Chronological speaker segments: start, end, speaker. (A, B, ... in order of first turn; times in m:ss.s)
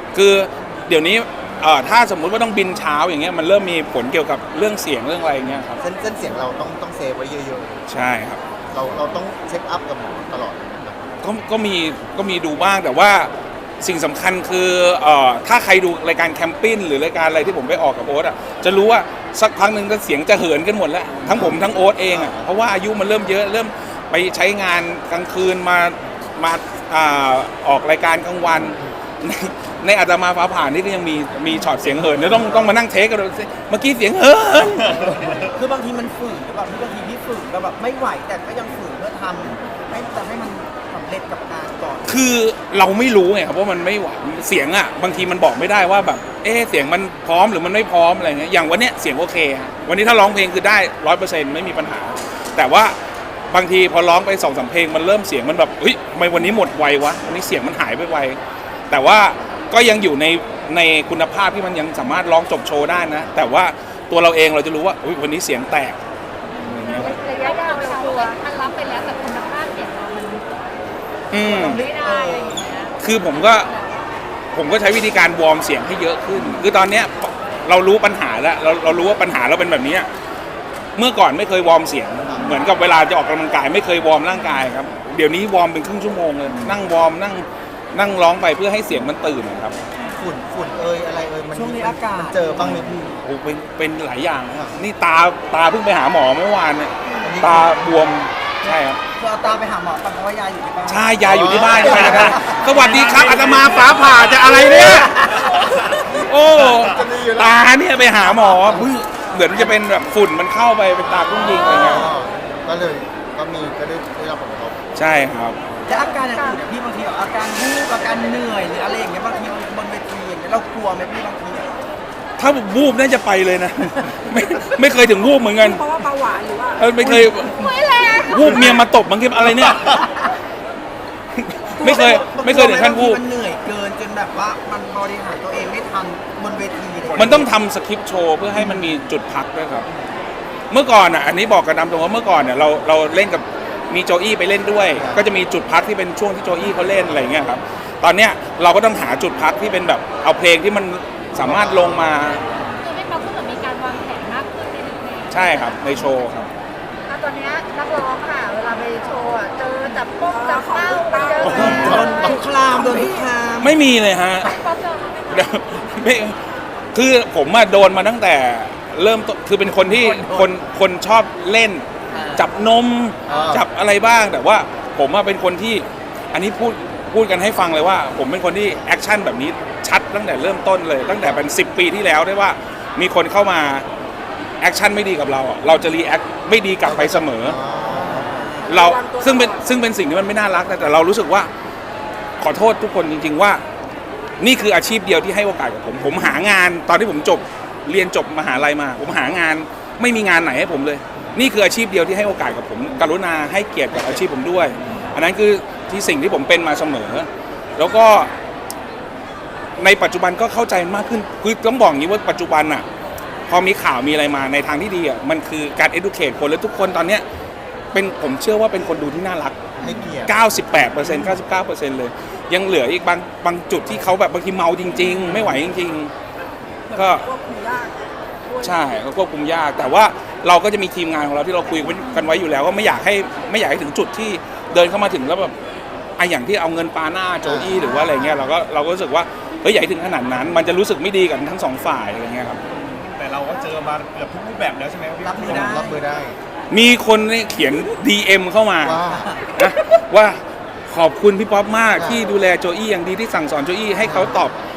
0:00.1-0:05.8 A
0:05.8-0:07.8 B
0:07.9-0:08.4 A
0:08.7-0:11.1 B
0:11.2-0:35.1 A
0:21.2-0:22.4 B
0:34.9-0:35.4 C
0:35.5-0:42.3 D
0:42.1-0:53.0 A
0:53.5-0:58.4 A
0:58.9-1:06.0 A
1:06.6-1:10.4 E
1:06.8-1:07.2 A
1:11.3-1:11.8 A
1:11.4-1:12.9 D
1:11.5-1:12.9 E
1:13.0-1:13.7 A
1:14.5-1:20.1 A
1:21.0-1:29.8 A
1:30.2-1:33.0 B
1:31.5-1:33.2 D
1:33.2-1:39.0 A
1:37.1-1:38.1 D
1:37.2-1:37.6 B
1:38.6-1:41.1 D
1:40.9-1:52.1 A
1:41.2-1:42.4 B
1:41.7-1:42.8 D
1:42.6-1:44.6 C
1:46.5-1:47.6 B
1:48.3-1:48.9 B
1:51.3-1:54.8 B
1:55.0-1:55.7 A
1:55.9-2:01.8 D
2:02.4-2:05.9 A
2:05.6-2:07.3 F
2:06.8-2:10.0 A
2:07.6-2:08.5 E
2:11.4-2:13.2 A
2:11.8-2:17.5 D
2:17.2-2:19.9 A
2:20.7-2:32.4 A
2:25.0-2:25.2 B
2:31.4-2:32.3 B
2:32.8-2:35.8 E
2:35.3-2:36.5 A
2:37.1-2:42.4 E
2:40.2-2:43.3 F
2:41.4-2:42.1 A
2:41.5-2:43.8 D
2:43.6-2:44.5 A
2:44.5-2:45.3 E
2:45.3-2:46.4 A
2:46.9-3:03.9 A
2:49.8-2:50.5 D
2:52.1-2:52.5 D
2:53.3-2:53.7 B
3:04.6-3:07.6 A
3:06.8-3:08.5 B
3:08.3-3:08.7 D
3:08.6-3:09.7 F
3:08.6-3:11.5 A
3:12.4-3:13.6 A
3:14.4-3:28.3 A
3:29.8-3:32.8 A
3:33.5-3:37.2 A
3:37.9-3:39.6 A
3:39.8-3:40.3 B
3:40.3-3:46.1 A
3:46.9-3:48.8 F
3:46.9-3:47.3 A
3:48.6-3:55.5 A
3:56.2-4:02.6 A
3:57.4-3:57.8 B
4:02.8-4:05.8 C
4:05.2-4:06.0 D
4:05.4-4:06.4 B
4:06.7-4:09.0 A
4:08.8-4:09.3 B
4:09.1-4:09.4 D
4:09.6-4:14.6 A
4:11.9-4:12.2 B
4:14.0-4:14.4 B